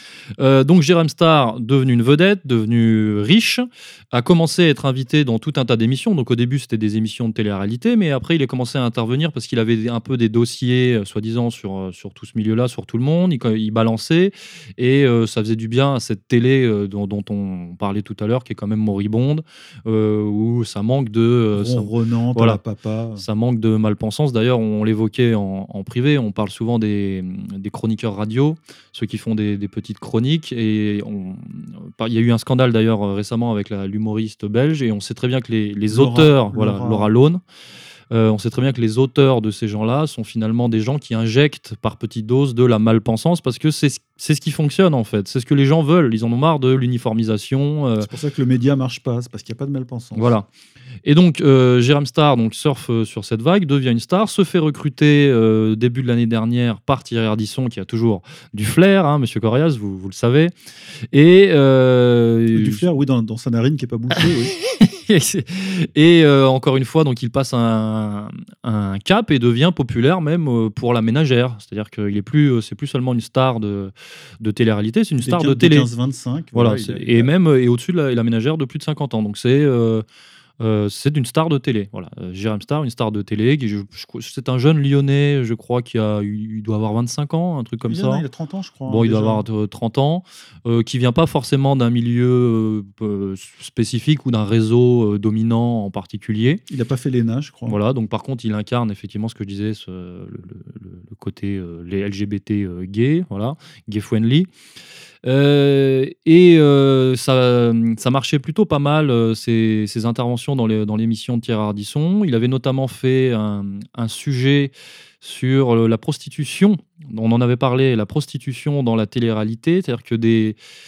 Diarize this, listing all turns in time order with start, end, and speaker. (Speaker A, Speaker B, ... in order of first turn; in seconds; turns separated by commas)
Speaker A: 0.4-22.6, Speaker B: 21.5-23.2, Speaker A: 23.2-37.4, Speaker B: 35.9-37.1, Speaker A: 38.1-48.1, Speaker B: 48.0-50.3, Speaker A: 50.1-50.5, Speaker A: 51.0-60.5, Speaker A: 61.1-62.8, Speaker B: 62.5-64.5, Speaker A: 64.7-75.9, Speaker B: 75.2-77.3, Speaker A: 76.5-80.0, Speaker A: 80.6-88.3, Speaker B: 87.8-89.5, Speaker A: 88.9-96.6, Speaker B: 96.7-97.8, Speaker A: 97.7-104.5, Speaker A: 105.2-120.6